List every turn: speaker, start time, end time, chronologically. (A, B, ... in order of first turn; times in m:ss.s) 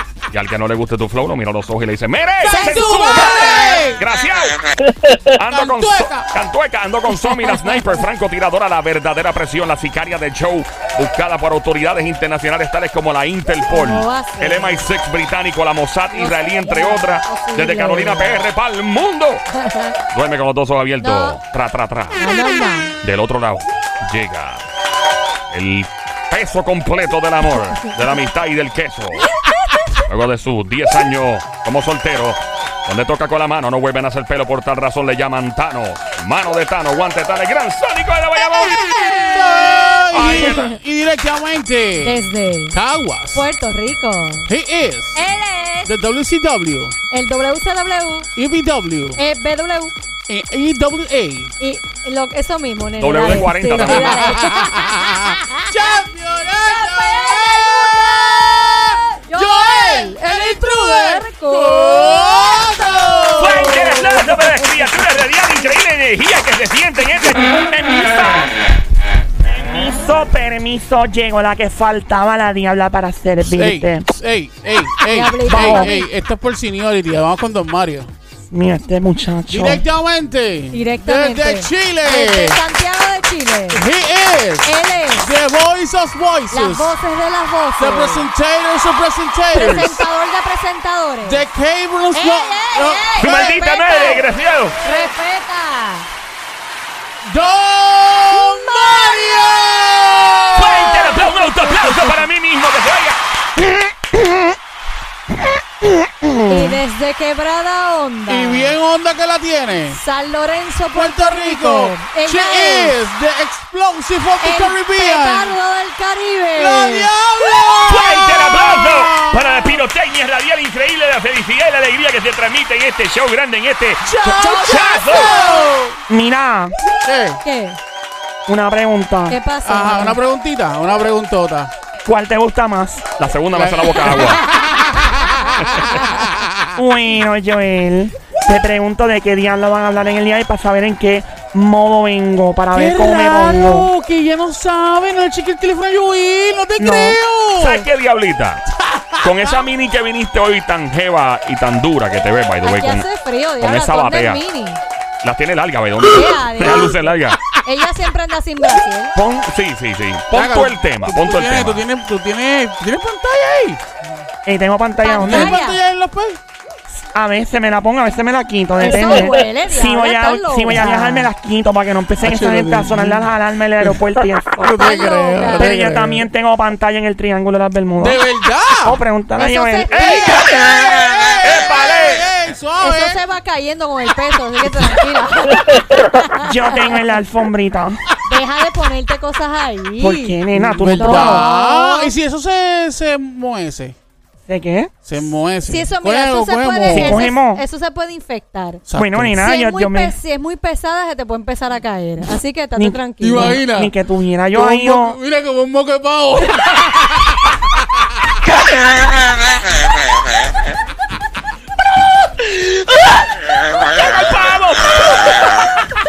0:00.3-0:19.4 A
0:02.4-0:04.0 B
0:02.5-0:03.4 C
0:05.5-0:06.3 B
0:07.2-0:07.8 C
0:13.7-0:14.8 C
0:16.1-0:18.4 C
0:19.5-0:19.9 C
0:20.1-0:22.3 A
0:21.0-0:21.4 C
0:22.2-0:22.9 C
0:23.0-0:24.6 A
0:25.5-0:29.3 A
0:30.0-0:38.8 A
0:39.3-0:43.4 B
0:40.1-0:40.7 A
0:40.3-0:40.7 C
0:42.0-0:42.8 C
0:43.3-0:44.5 C
0:44.5-0:45.2 B
0:45.1-0:45.9 C
0:45.8-0:47.0 B
0:47.1-0:48.3 C
0:48.4-0:49.2 B
0:49.2-0:49.9 C
0:50.3-0:51.5 B
0:51.6-0:56.0 C
0:53.0-0:54.4 A
0:53.3-1:04.2 B
0:56.6-0:57.7 C
0:59.2-1:05.4 C
1:03.4-1:08.6 A
1:09.4-1:14.1 D
1:13.4-1:18.1 B
1:15.0-1:16.1 C
1:15.5-1:15.9 D
1:18.5-1:19.8 D
1:19.5-1:22.6 B
1:20.7-1:23.8 C
1:23.7-1:26.9 B
1:24.6-1:25.3 C
1:26.5-1:28.3 C
1:27.8-1:30.0 B
1:29.5-1:31.4 C
1:31.2-1:33.4 B
1:32.1-1:36.0 C
1:33.2-1:34.8 A
1:37.2-1:41.1 B
1:38.4-1:39.1 C
1:40.5-1:43.2 A
1:40.6-1:42.2 C
1:43.6-1:44.6 D
1:45.3-1:46.8 D
1:46.4-1:48.7 C
1:48.3-1:50.0 B
1:49.9-1:52.9 C
1:50.9-1:55.5 B
1:54.4-1:57.1 C
1:56.6-1:59.8 B
1:57.9-2:05.4 A
2:04.0-2:06.0 B
2:04.2-2:05.8 C
2:06.1-2:06.8 D
2:07.0-2:07.4 B
2:07.4-2:07.8 C
2:08.5-2:09.4 D
2:09.3-2:10.2 C
2:09.6-2:11.7 B
2:12.0-2:13.2 D
2:13.2-2:14.4 A
2:13.5-2:16.7 B
2:16.8-2:23.9 D
2:22.7-2:27.9 B
2:26.8-2:27.2 D
2:27.6-2:28.6 A
2:29.2-2:33.0 A
2:32.6-2:34.8 C
2:33.6-2:34.4 A
2:35.2-2:37.4 A
2:36.1-2:37.1 C
2:37.6-2:39.1 C
2:39.1-2:41.8 A
2:40.3-2:43.8 B
2:44.4-2:45.6 D
2:45.0-2:45.8 C
2:45.2-2:46.4 B
2:47.0-2:54.8 D
2:48.8-2:51.3 C
2:52.2-2:53.3 B
2:54.6-2:56.2 B
2:54.8-2:55.7 C
2:55.6-2:58.2 D
2:58.0-2:59.0 B
2:58.8-3:00.0 D
2:59.4-3:00.5 C
2:59.9-3:02.2 A
3:01.9-3:03.2 B
3:02.8-3:06.9 C
3:06.4-3:08.0 D
3:08.2-3:10.4 C
3:10.0-3:11.4 D
3:10.5-3:14.0 B
3:10.9-3:12.1 C
3:14.5-3:14.9 D
3:15.0-3:17.2 B
3:15.6-3:18.8 C
3:16.9-3:17.6 D
3:18.9-3:19.4 B
3:18.9-3:20.2 D
3:19.4-3:23.6 C
3:22.8-3:25.2 D
3:23.2-3:23.9 B
3:24.5-3:27.3 B
3:34.0-3:35.2 A